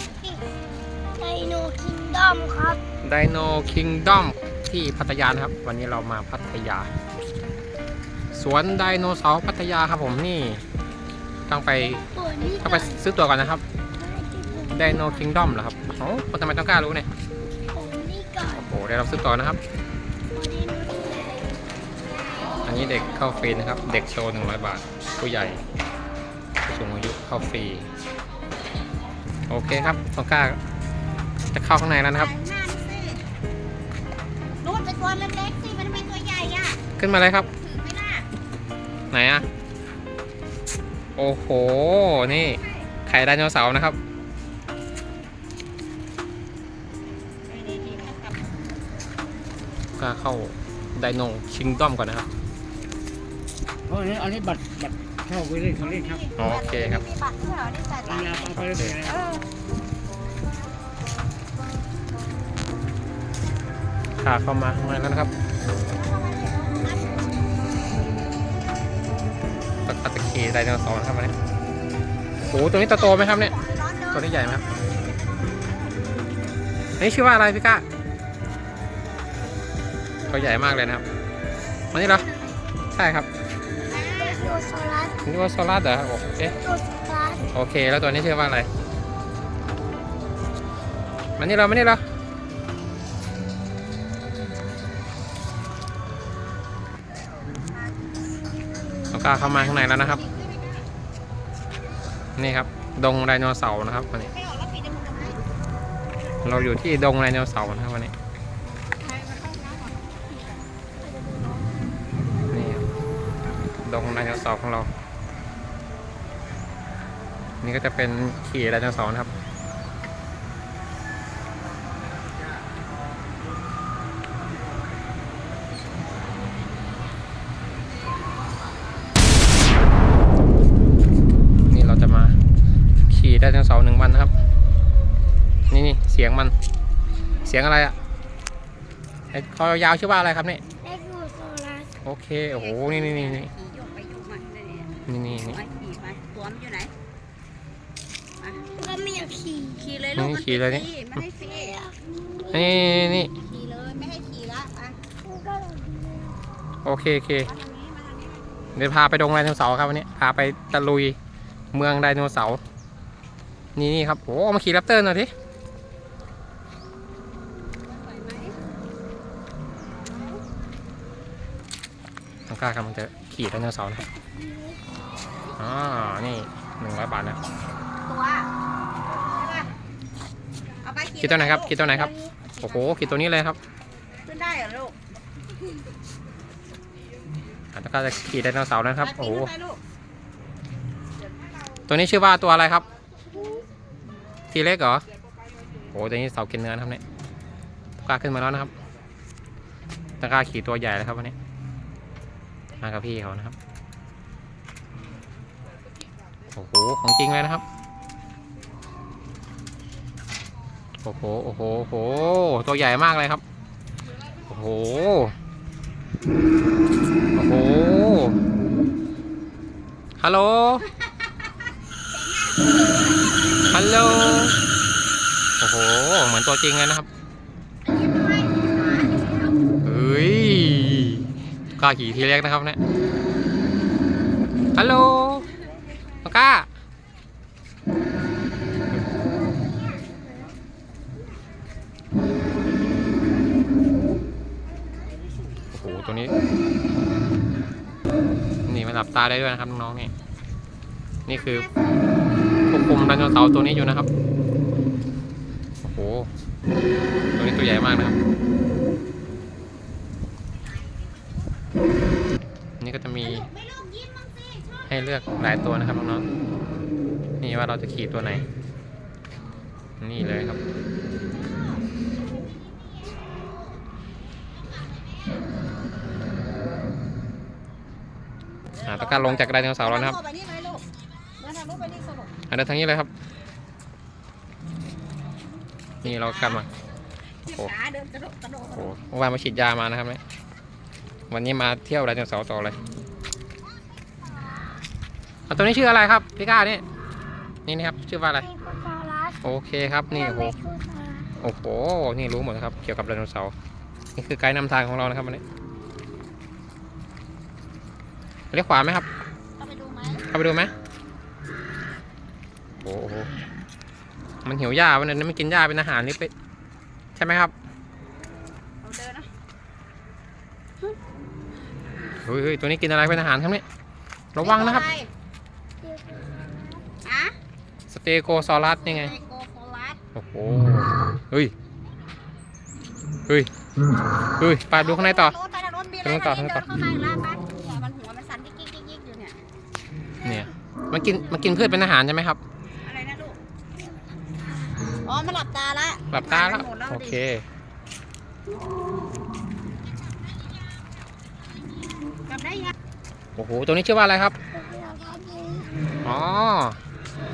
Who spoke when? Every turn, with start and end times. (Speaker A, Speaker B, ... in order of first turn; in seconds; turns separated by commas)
Speaker A: 0.1-0.5, Speaker A: 1.1-2.8, Speaker B: 3.0-6.9, Speaker B: 8.3-10.6, Speaker B: 11.5-12.0, Speaker A: 12.1-13.0, Speaker B: 12.6-13.6, Speaker A: 14.0-15.2, Speaker B: 14.7-17.1, Speaker A: 17.7-18.7, Speaker B: 18.5-19.6, Speaker A: 20.3-21.5, Speaker B: 22.6-25.6, Speaker B: 26.6-27.9, Speaker B: 29.5-30.6, Speaker B: 31.5-32.3, Speaker C: 32.1-33.2, Speaker C: 34.6-36.8, Speaker B: 37.0-37.5, Speaker C: 37.5-38.3, Speaker B: 39.1-39.5, Speaker B: 41.2-44.0, Speaker C: 47.5-48.3, Speaker B: 50.0-52.3, Speaker D: 53.9-56.2, Speaker C: 55.7-59.4, Speaker B: 56.4-57.0, Speaker D: 58.2-59.1, Speaker B: 58.5-59.0, Speaker B: 64.2-65.3, Speaker C: 65.9-67.7, Speaker B: 69.8-71.4, Speaker C: 72.4-76.1, Speaker B: 72.5-73.5, Speaker B: 74.1-74.6, Speaker B: 77.0-77.8, Speaker A: 80.2-80.5, Speaker B: 80.2-81.0, Speaker B: 81.9-82.3, Speaker B: 82.9-83.3, Speaker C: 83.9-84.5, Speaker A: 83.9-85.2, Speaker B: 85.2-86.6, Speaker A: 86.6-87.5, Speaker B: 87.5-88.7, Speaker B: 91.4-92.0, Speaker B: 99.1-100.2, Speaker C: 99.3-100.9, Speaker B: 102.4-104.3, Speaker C: 104.3-105.4, Speaker B: 106.4-108.1, Speaker C: 108.9-110.6, Speaker A: 111.1-111.6, Speaker B: 112.5-112.9, Speaker B: 113.8-114.9, Speaker B: 117.6-119.3, Speaker B: 131.7-132.4, Speaker B: 133.1-134.3, Speaker B: 135.7-136.5, Speaker B: 137.4-138.0, Speaker B: 139.3-140.6, Speaker A: 140.8-141.9, Speaker B: 142.0-143.5, Speaker C: 142.5-146.9, Speaker B: 145.1-145.6, Speaker C: 148.4-148.7, Speaker A: 148.7-149.9, Speaker C: 149.7-151.8, Speaker B: 150.2-150.9, Speaker A: 151.4-152.9, Speaker B: 152.5-153.3, Speaker C: 153.3-155.0, Speaker A: 155.2-156.4, Speaker B: 156.8-157.5, Speaker C: 157.4-158.7, Speaker B: 158.8-161.2, Speaker B: 161.7-162.6, Speaker B: 163.8-165.3, Speaker C: 167.8-168.6, Speaker C: 170.0-170.4, Speaker B: 172.5-174.1, Speaker A: 174.2-174.8, Speaker B: 175.6-177.4, Speaker C: 178.1-178.5, Speaker C: 179.1-179.7, Speaker C: 180.8-181.7, Speaker B: 181.2-183.6, Speaker A: 181.9-182.4, Speaker C: 182.6-183.2, Speaker C: 184.2-185.0, Speaker B: 187.7-189.5, Speaker C: 189.0-189.8, Speaker B: 191.9-192.8, Speaker B: 194.5-195.0, Speaker B: 195.9-197.0, Speaker B: 198.0-198.7, Speaker B: 200.2-201.3, Speaker B: 202.8-203.6, Speaker B: 206.5-207.6, Speaker B: 211.0-213.4, Speaker B: 214.5-215.3, Speaker B: 217.3-218.4, Speaker B: 220.2-220.9, Speaker C: 222.1-224.0, Speaker B: 223.7-224.6, Speaker B: 225.6-227.1, Speaker C: 227.8-229.6, Speaker B: 229.8-232.8, Speaker B: 234.8-235.5, Speaker B: 236.2-236.7, Speaker A: 239.7-240.4, Speaker B: 245.7-246.3, Speaker B: 248.7-250.1, Speaker B: 251.3-251.7, Speaker B: 252.7-254.1, Speaker B: 255.8-256.3, Speaker B: 257.4-258.2, Speaker C: 260.6-261.3, Speaker B: 262.8-263.5, Speaker C: 263.2-264.9, Speaker B: 264.9-266.3, Speaker B: 267.4-268.4, Speaker B: 270.0-270.6, Speaker C: 271.3-273.8, Speaker C: 274.6-275.4, Speaker C: 278.8-280.9, Speaker B: 278.9-280.2, Speaker C: 281.4-282.4, Speaker B: 282.5-283.1, Speaker B: 286.0-286.7, Speaker C: 286.0-286.7, Speaker C: 287.4-288.9, Speaker B: 288.7-290.2, Speaker B: 291.3-292.8, Speaker B: 295.5-296.8, Speaker B: 297.7-298.5, Speaker A: 298.4-299.4, Speaker B: 299.4-300.6, Speaker A: 300.1-301.3, Speaker B: 301.4-303.5, Speaker B: 304.2-305.4, Speaker B: 308.5-309.1, Speaker C: 309.6-310.2, Speaker B: 310.3-310.7, Speaker B: 312.8-313.3, Speaker B: 314.4-316.3, Speaker B: 317.2-317.5, Speaker C: 318.8-319.3, Speaker B: 322.2-323.6, Speaker B: 324.3-324.9, Speaker C: 324.4-325.1, Speaker A: 325.8-326.9, Speaker C: 327.0-327.4, Speaker B: 327.9-329.1, Speaker C: 328.8-330.0, Speaker B: 330.1-331.5, Speaker B: 334.4-335.4, Speaker C: 334.7-339.4, Speaker B: 336.0-336.6, Speaker B: 340.2-342.4, Speaker C: 342.8-343.4, Speaker A: 344.7-344.9, Speaker C: 345.0-347.2, Speaker B: 346.1-347.4, Speaker C: 352.3-352.7, Speaker B: 353.4-354.4, Speaker A: 354.5-356.0, Speaker B: 356.0-356.8